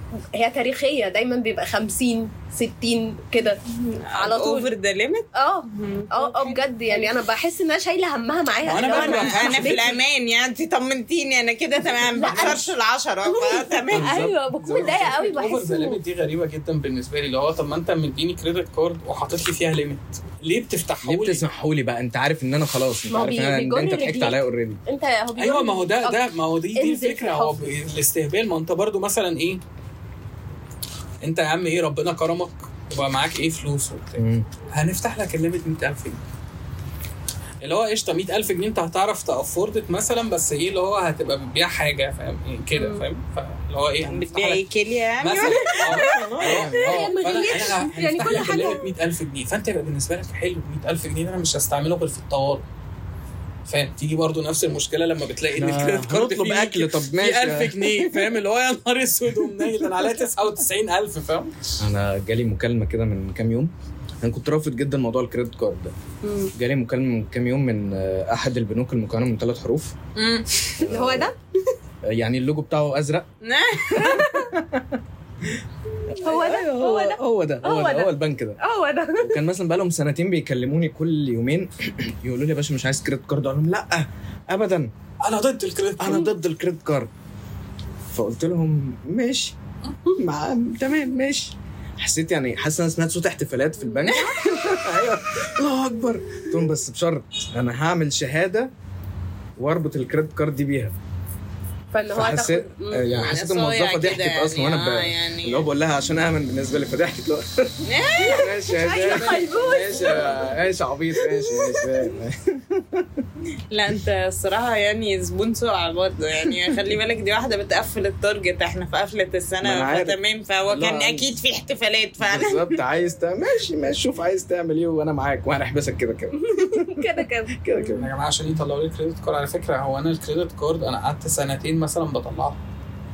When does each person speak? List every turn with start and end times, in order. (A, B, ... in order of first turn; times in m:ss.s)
0:00.3-0:03.6 A
0:03.7-0:06.6 B
0:04.1-0:04.7 A
0:05.3-0:10.0 A
0:08.6-0:09.9 C
0:08.8-0:14.1 B
0:12.2-0:12.7 A
0:12.2-0:12.6 C
0:13.3-0:16.0 A
0:13.9-0:15.2 D
0:15.1-0:21.4 C
0:21.0-0:24.8 D
0:23.1-0:26.2 A
0:25.4-0:29.6 C
0:26.8-0:27.6 A
0:31.2-0:36.2 C
0:34.2-0:34.5 D
0:37.6-0:44.6 C
0:42.8-0:43.0 A
0:44.1-0:46.8 B
0:45.2-0:52.6 C
0:46.0-0:48.9 A
0:46.4-0:46.8 D
0:53.7-1:01.6 C
0:55.6-0:58.0 D
1:01.8-1:05.9 D
1:06.2-1:06.5 A
1:06.5-1:10.0 D
1:10.2-1:10.8 B
1:10.8-1:11.3 D
1:10.8-1:11.4 A
1:12.0-1:13.3 D
1:13.4-1:14.3 B
1:13.9-1:14.9 D
1:16.2-1:17.1 B
1:16.2-1:19.4 A
1:16.8-1:18.6 D
1:19.2-1:24.9 D
1:25.2-1:26.3 C
1:26.0-1:27.1 D
1:28.1-1:29.6 D
1:30.2-1:38.7 D
1:33.8-1:34.4 A
1:34.1-1:34.6 B
1:39.6-1:41.0 D
1:41.9-1:43.3 A
1:42.1-1:53.3 D
1:43.1-1:45.6 B
1:47.8-1:49.4 B
1:48.7-1:50.5 A
1:53.7-2:02.8 B
1:59.6-2:01.3 D
2:02.2-2:08.1 D
2:06.4-2:08.0 A
2:08.0-2:12.6 C